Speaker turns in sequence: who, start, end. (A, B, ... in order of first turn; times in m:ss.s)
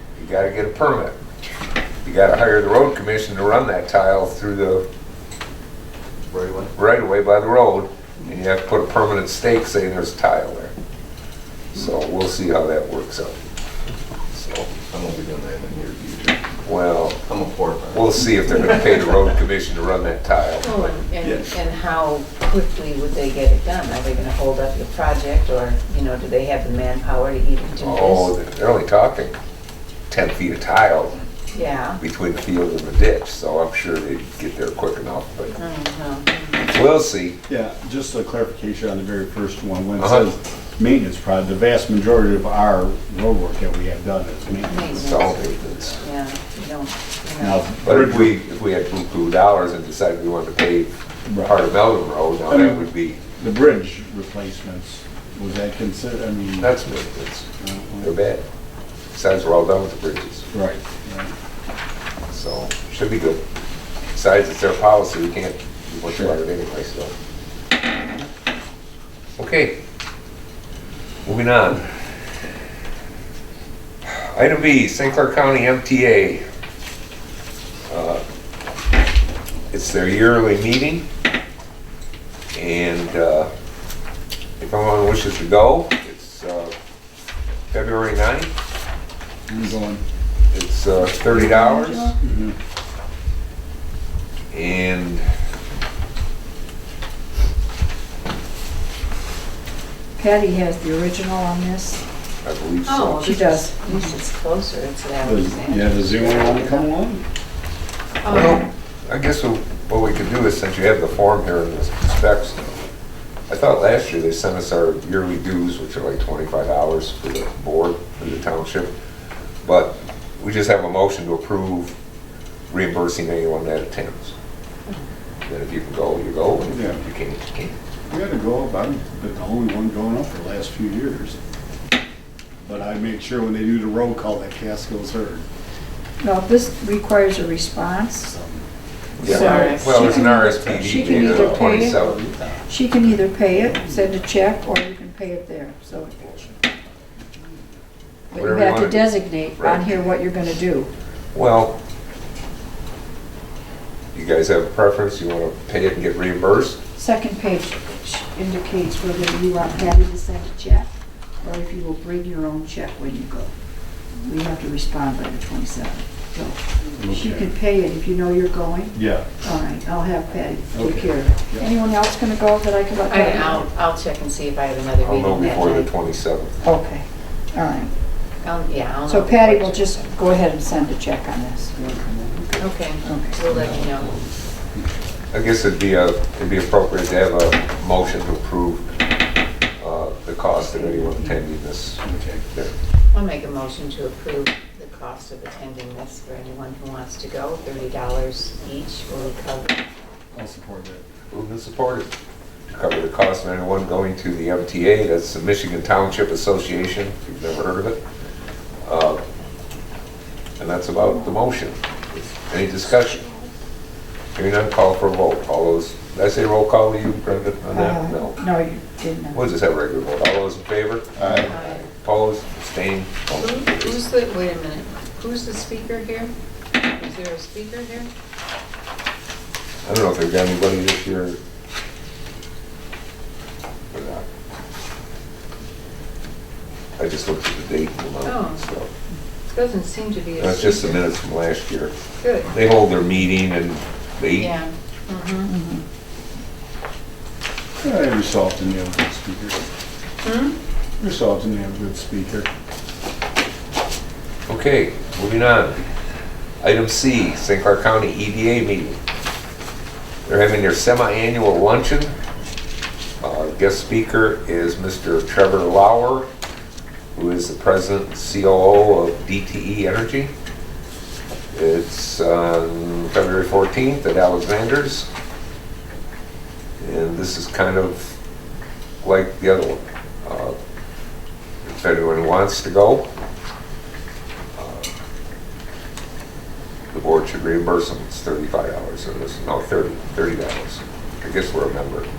0:00.1-0:01.2 A
0:02.0-0:04.8 A
0:06.3-0:06.7 B
0:06.7-0:10.7 A
0:11.7-0:13.4 A
0:14.3-0:14.7 A
0:14.8-0:16.5 B
0:16.6-0:17.2 A
0:17.2-0:19.2 B
0:17.9-0:20.8 A
0:20.6-0:28.3 C
0:21.2-0:21.6 B
0:27.8-0:29.3 A
0:30.1-0:31.2 A
0:31.5-0:32.0 C
0:32.0-0:35.6 A
0:35.6-0:36.7 C
0:36.6-0:37.4 A
0:37.5-0:45.4 D
0:40.0-0:40.3 A
0:44.7-0:45.2 C
0:44.9-0:46.1 A
0:46.0-0:47.6 C
0:47.4-0:48.4 D
0:47.8-0:53.2 A
0:51.2-0:51.6 D
0:52.5-0:56.8 D
0:56.6-0:57.5 A
0:57.6-0:58.2 D
0:58.0-0:58.4 A
0:59.1-1:00.4 A
1:00.5-1:01.3 D
1:02.3-1:03.4 A
1:04.1-1:07.1 A
1:06.1-1:06.4 D
1:09.4-1:09.8 A
1:11.2-1:11.8 A
1:14.2-1:16.4 A
1:17.9-1:18.2 A
1:19.7-1:21.0 A
1:22.5-1:23.5 A
1:24.6-1:26.7 A
1:27.7-1:28.5 A
1:29.5-1:30.0 D
1:30.5-1:32.1 A
1:31.2-1:32.2 E
1:32.2-1:32.5 D
1:34.5-1:35.2 A
1:40.2-1:42.0 E
1:42.4-1:43.4 A
1:42.8-1:46.9 C
1:43.2-1:44.0 E
1:45.2-1:47.2 D
1:48.2-1:48.6 C
1:48.2-1:52.8 A
1:53.5-1:58.9 A
1:59.6-2:02.0 A
2:02.7-2:04.3 A
2:05.4-2:07.8 A
2:06.6-2:07.0 D
2:08.1-2:11.4 D
2:12.6-2:15.4 D
2:16.2-2:18.3 E
2:18.2-2:18.7 D
2:19.2-2:22.2 A
2:19.2-2:22.0 E
2:19.2-2:20.0 C
2:20.6-2:24.2 D
2:22.7-2:26.5 E
2:26.2-2:26.6 D
2:28.3-2:30.9 E
2:28.3-2:30.2 A
2:31.3-2:31.8 A
2:34.1-2:36.8 A
2:37.0-2:40.9 E
2:41.4-2:43.5 E
2:44.2-2:53.7 E
2:46.8-2:47.5 D
2:48.9-2:49.3 D
2:50.7-2:51.7 D
2:53.0-2:55.9 C
2:55.0-2:56.6 A
2:56.6-2:57.9 E
2:58.4-3:00.3 C
2:59.0-3:01.7 E
3:01.7-3:02.5 D
3:02.6-3:04.2 C
3:03.0-3:03.4 E
3:03.5-3:04.3 A
3:05.3-3:08.9 A
3:09.8-3:12.7 A
3:10.7-3:11.3 E
3:12.0-3:12.4 D
3:13.1-3:19.8 C
3:20.3-3:21.1 D
3:21.3-3:22.1 A
3:22.7-3:28.0 A
3:28.8-3:29.2 A
3:30.6-3:33.3 A
3:34.3-3:38.4 A
3:37.7-3:39.4 E
3:39.3-3:44.0 A
3:41.2-3:41.5 D
3:41.3-3:41.8 C
3:43.3-3:46.3 C
3:46.9-3:48.1 C
3:49.8-3:51.4 A
3:53.9-3:54.2 A
3:57.0-3:58.9 A
3:58.2-3:58.6 C
3:59.5-4:01.0 C
4:00.4-4:01.9 A
4:02.2-4:02.5 C
4:02.4-4:04.6 A
4:04.4-4:05.5 C
4:05.5-4:05.8 E
4:07.8-4:09.6 D
4:10.2-4:10.6 C
4:11.0-4:12.5 D
4:14.5-4:15.8 A
4:16.6-4:19.0 A
4:20.2-4:22.1 A
4:23.2-4:26.3 A
4:27.1-4:30.3 A
4:31.5-4:35.1 A
4:36.8-4:38.2 A
4:39.0-4:40.6 A
4:41.6-4:43.1 A
4:44.6-4:44.9 A
4:46.9-4:52.1 A